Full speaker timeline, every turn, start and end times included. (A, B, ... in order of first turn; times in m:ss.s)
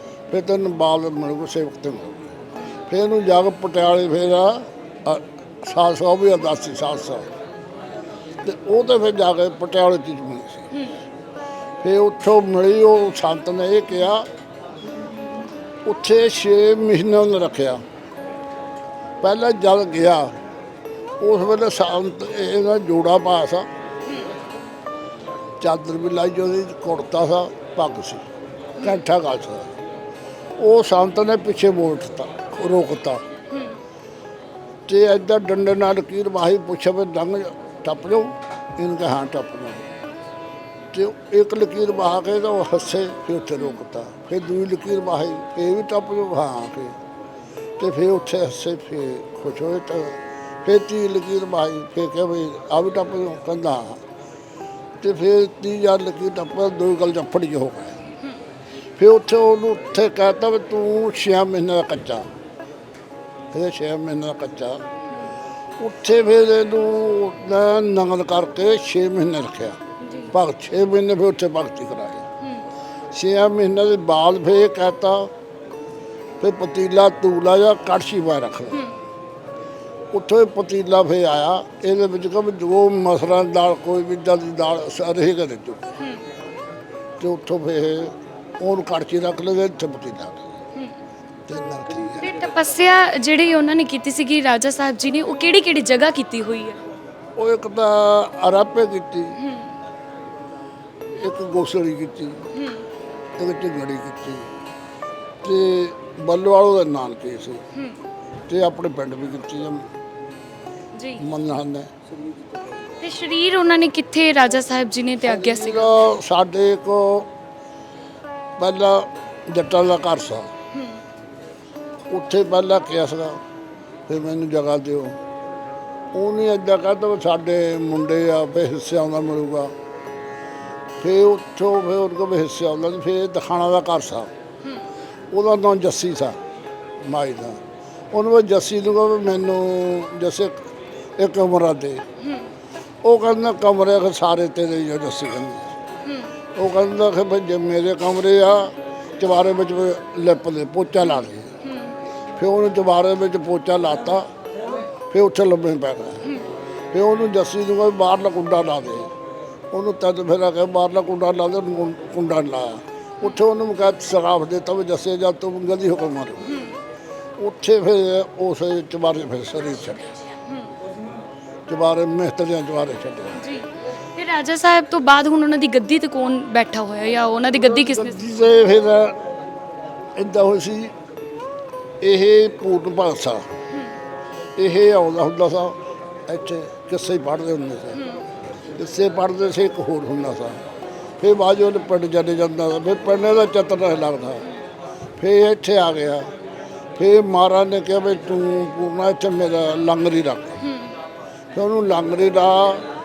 0:00.3-0:02.3 A
0:02.9-0:07.2 A
0:08.4-0:10.6 A
0:11.8-0:14.2 A
0:15.8-0:17.8 A
0:19.2-0:20.3 A
0:21.2-0:23.6 A
0:25.6-0:28.2 A
0:28.8-0:29.7 A
0:30.6-0:33.2 A
0:34.9-0:39.9 A
0:40.9-0:46.9 A
0:47.8-0:54.0 A
0:55.0-0:58.0 A
0:59.0-1:02.2 A
1:03.5-1:04.8 A
1:05.8-1:09.8 A
1:10.0-1:10.3 B
1:10.3-1:12.2 A
1:13.1-1:15.3 A
1:16.4-1:18.8 A
1:20.1-1:25.8 A
1:27.2-1:30.5 A
1:31.5-1:32.3 A
1:32.2-1:36.8 B
1:37.4-1:39.4 A
1:39.4-1:39.7 B
1:41.2-1:42.4 A
1:42.6-1:42.8 B
1:43.4-1:44.4 A
1:45.4-1:47.6 A
1:48.5-1:49.8 A
1:51.0-1:51.2 B
1:51.2-1:51.9 A
1:53.0-1:55.9 B
1:55.2-1:57.3 A
1:58.6-2:00.5 A
2:02.1-2:03.4 A
2:04.1-2:05.2 A
2:06.1-2:09.7 A
2:11.0-2:14.3 A
2:15.3-2:16.4 A
2:17.0-2:17.6 A
2:18.1-2:20.6 A
2:21.2-2:22.0 A
2:23.0-2:25.6 A
2:26.6-2:31.5 A
2:31.6-2:31.9 B
2:32.4-2:34.3 A
2:35.1-2:36.2 A
2:36.9-2:39.1 A
2:39.7-2:46.5 A
2:46.5-2:46.7 B
2:47.4-2:50.1 A
2:51.7-2:53.4 A
2:53.4-2:58.2 B
2:57.6-2:59.2 A
3:00.2-3:00.9 A
3:02.0-3:03.4 A
3:04.6-3:05.7 A
3:06.3-3:08.0 A
3:08.8-3:10.6 A
3:11.2-3:14.4 A
3:15.2-3:16.2 A
3:17.0-3:20.6 A
3:20.6-3:20.9 B
3:21.5-3:22.8 A